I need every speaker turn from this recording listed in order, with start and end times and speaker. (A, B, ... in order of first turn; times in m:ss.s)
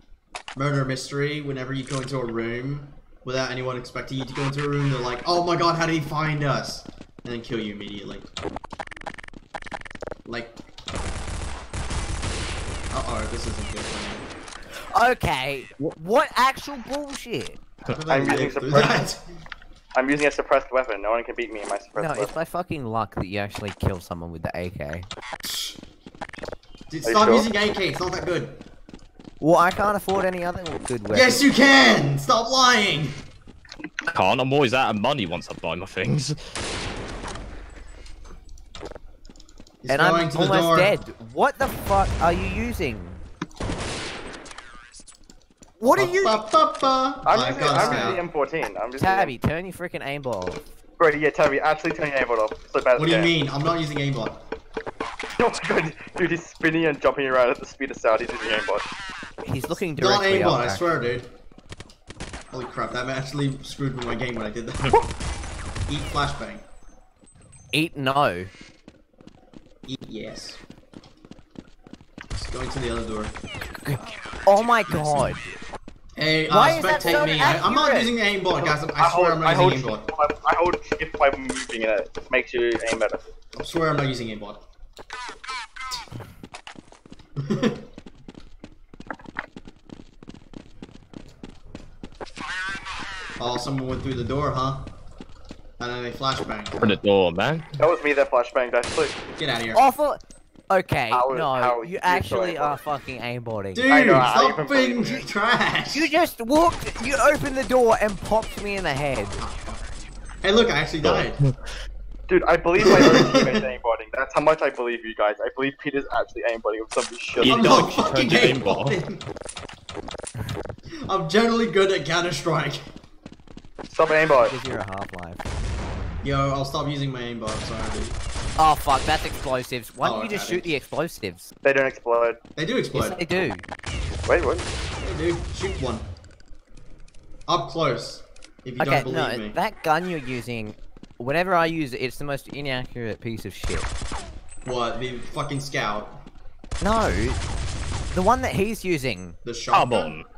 0:00.6-0:08.3 A
0:10.3-0:10.6 A
0:12.9-0:14.3 A
0:14.9-0:17.6 B
0:17.9-0:19.2 A
0:18.1-0:19.0 C
0:20.0-0:22.3 C
0:22.0-0:25.1 B
0:25.4-0:25.8 A
0:26.9-0:28.6 A
0:27.0-0:27.5 C
0:29.4-0:31.4 B
0:31.1-0:33.2 A
0:34.1-0:36.4 D
0:39.8-0:40.9 A
0:39.9-0:43.2 B
0:45.8-0:46.4 B
0:45.8-0:48.2 A
0:47.3-0:49.3 C
0:47.7-0:48.2 B
0:49.0-0:50.6 B
0:51.0-0:53.3 C
0:53.0-0:54.4 A
0:55.4-0:58.9 C
0:59.4-1:01.0 B
1:00.0-1:01.3 A
1:02.5-1:05.0 A
1:05.9-1:06.6 A
1:07.7-1:08.5 B
1:09.9-1:10.6 A
1:12.3-1:13.3 A
1:13.8-1:15.5 B
1:16.2-1:20.1 A
1:16.5-1:18.2 B
1:18.6-1:23.2 C
1:23.5-1:24.6 A
1:27.4-1:27.8 A
1:33.4-1:34.9 A
1:35.8-1:37.0 A
1:36.8-1:37.8 D
1:37.8-1:39.2 C
1:39.4-1:39.8 A
1:39.7-1:43.9 B
1:41.1-1:42.8 C
1:43.8-1:46.1 A
1:43.9-1:45.3 C
1:45.9-1:49.4 B
1:49.4-1:49.8 A
1:50.4-1:51.4 A
1:51.0-1:51.6 D
1:52.3-1:57.8 C
1:52.8-1:53.6 A
1:57.4-1:59.0 D
1:57.4-1:59.2 A
2:01.1-2:02.8 A
2:03.9-2:04.5 C
2:04.4-2:05.4 B
2:06.2-2:08.2 A
2:08.6-2:11.5 B
2:10.0-2:10.7 A
2:11.6-2:12.4 C
2:12.6-2:13.2 A
2:12.9-2:13.7 B
2:14.3-2:14.6 C
2:15.0-2:16.1 A
2:17.5-2:19.6 A
2:18.8-2:23.9 B
2:24.6-2:26.2 A
2:26.8-2:27.4 B
2:28.1-2:29.4 B
2:29.4-2:30.2 A
2:29.7-2:30.3 D